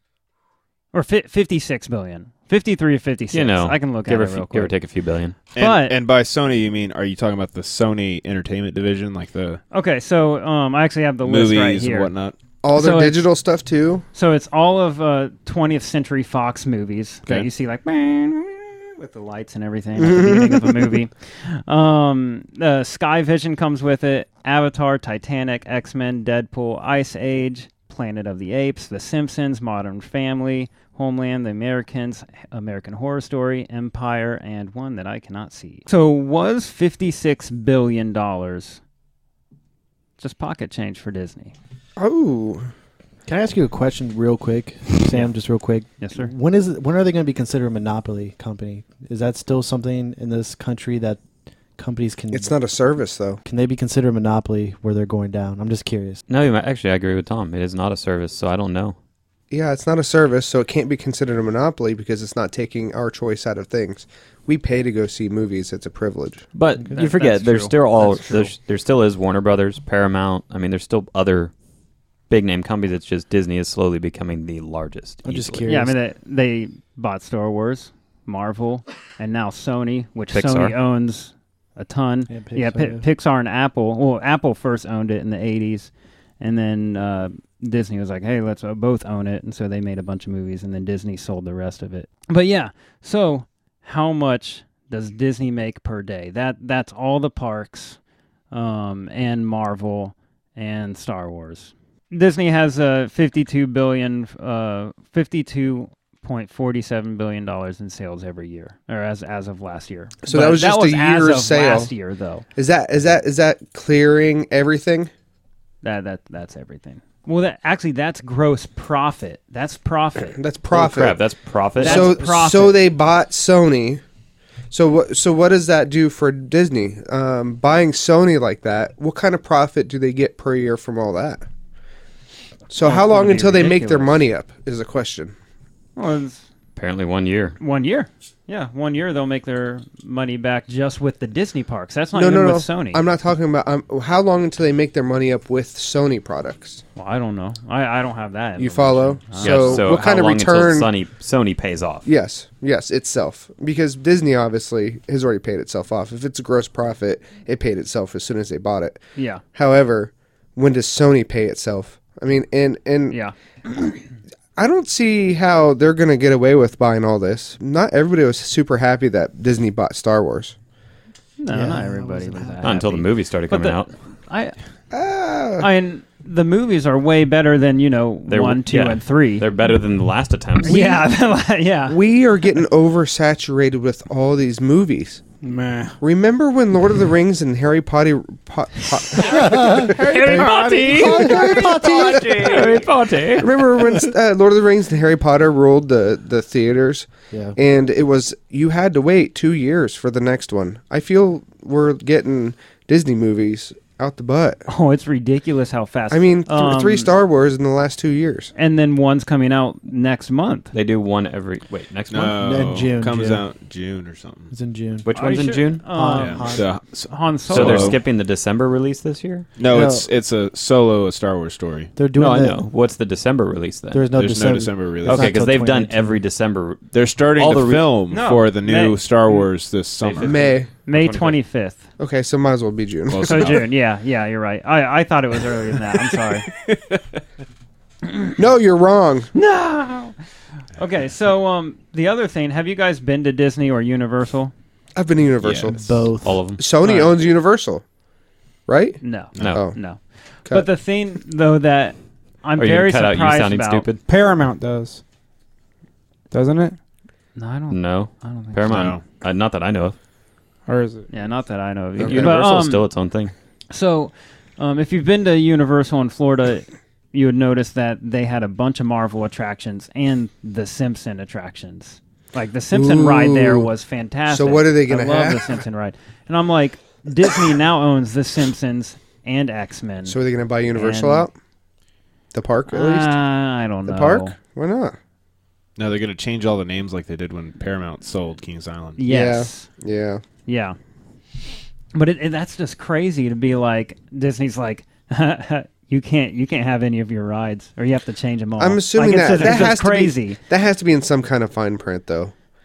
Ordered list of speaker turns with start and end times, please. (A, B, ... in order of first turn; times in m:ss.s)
0:00.9-0:04.7 A
0:03.3-0:05.4 B
0:05.5-0:09.6 C
0:05.6-0:06.0 A
0:09.7-0:12.1 A
0:11.2-0:12.4 C
0:12.6-0:14.0 D
0:12.7-0:13.3 A
0:14.2-0:38.8 A
0:20.0-0:20.7 D
0:40.2-0:41.5 A
0:42.0-0:42.7 D
0:43.3-0:51.2 E
0:46.0-0:46.3 A
0:51.8-0:52.6 E
0:52.3-0:53.4 D
0:53.4-0:56.2 E
0:56.3-0:59.0 B
0:59.5-1:06.5 D
1:06.5-1:11.5 B
1:06.9-1:08.5 A
1:12.3-1:15.7 B
1:15.2-1:16.0 E
1:15.6-1:38.0 A
1:20.3-1:20.8 B
1:22.3-1:23.0 E
1:38.5-1:52.5 A
1:50.2-1:51.9 D
1:52.6-1:55.1 D
1:55.8-2:00.4 A
2:00.3-2:01.2 D
2:00.7-2:02.2 B
2:01.8-2:04.0 D
2:01.8-2:02.8 A
2:04.7-2:11.5 D
2:12.7-2:15.3 D
2:12.8-2:14.2 A
2:16.0-2:16.5 A
2:16.8-2:17.6 B
2:17.6-2:23.0 A
2:22.1-2:26.8 D
2:27.0-2:29.9 A
2:28.6-2:30.9 D
2:29.4-2:32.1 B
2:32.0-2:43.2 D
2:39.2-2:39.4 A
2:43.1-2:44.0 A
2:44.6-2:50.6 D
2:51.4-2:54.6 A
2:51.5-2:52.8 E
2:52.6-2:53.9 B
2:54.9-2:55.7 D
2:55.6-2:59.5 A
2:58.3-3:00.9 B
3:00.6-3:02.0 A
3:01.9-3:05.2 D
3:05.4-3:06.0 F
3:06.0-3:10.4 D
3:09.3-3:11.4 A
3:09.3-3:09.8 E
3:09.9-3:12.7 F
3:10.2-3:11.2 B
3:10.9-3:12.6 E
3:11.0-3:12.7 D
3:12.4-3:13.5 B
3:13.4-3:24.6 D
3:17.3-3:17.6 E
3:24.7-3:27.1 A
3:26.1-3:28.5 D
3:28.6-3:30.7 A
3:30.7-3:32.4 B
3:32.1-3:34.5 C
3:32.4-3:33.4 E
3:34.5-3:35.2 E
3:35.0-3:35.9 B
3:35.1-3:38.0 A
3:35.8-3:36.7 E
3:36.1-3:38.0 C
3:37.5-3:39.5 B
3:39.6-3:41.9 C
3:39.7-3:40.1 E
3:42.0-3:42.7 E
3:42.1-3:44.1 B
3:43.9-3:46.1 E
3:44.1-3:45.3 C
3:45.0-3:47.9 B
3:46.9-3:50.4 C
3:48.1-3:49.0 A
3:50.0-3:51.4 B
3:50.2-3:50.7 D
3:50.9-3:51.8 A
3:52.0-3:53.5 D
3:53.1-3:53.6 C
3:53.2-3:56.5 A
3:56.5-3:57.2 C
3:58.4-3:59.3 D
3:59.3-4:00.2 A
4:00.8-4:04.5 A
4:05.0-4:07.8 D
4:05.4-4:05.7 C
4:05.7-4:06.4 E
4:06.2-4:06.6 B
4:06.8-4:07.2 A
4:08.7-4:09.0 D
4:09.0-4:13.9 A
4:09.4-4:09.6 C
4:09.4-4:09.6 B
4:09.5-4:09.8 D
4:12.6-4:14.0 B
4:14.1-4:15.0 F
4:16.3-4:16.8 F
4:17.4-4:18.9 A
4:17.7-4:20.0 B
4:18.7-4:19.0 C
4:20.7-4:21.1 F
4:21.1-4:22.9 A
4:22.0-4:23.3 B
4:22.1-4:22.3 D
4:23.7-4:40.2 A
4:32.7-4:33.7 D
4:34.3-4:35.4 D
4:40.1-4:41.3 D
4:40.7-4:41.3 A
4:42.3-4:43.2 D
4:42.7-4:44.4 A
4:43.9-4:45.0 D
4:45.8-4:49.0 C
4:49.0-4:49.7 A
4:49.0-4:50.2 D
4:50.5-4:50.8 A
4:51.9-5:00.4 A
4:58.6-5:02.3 D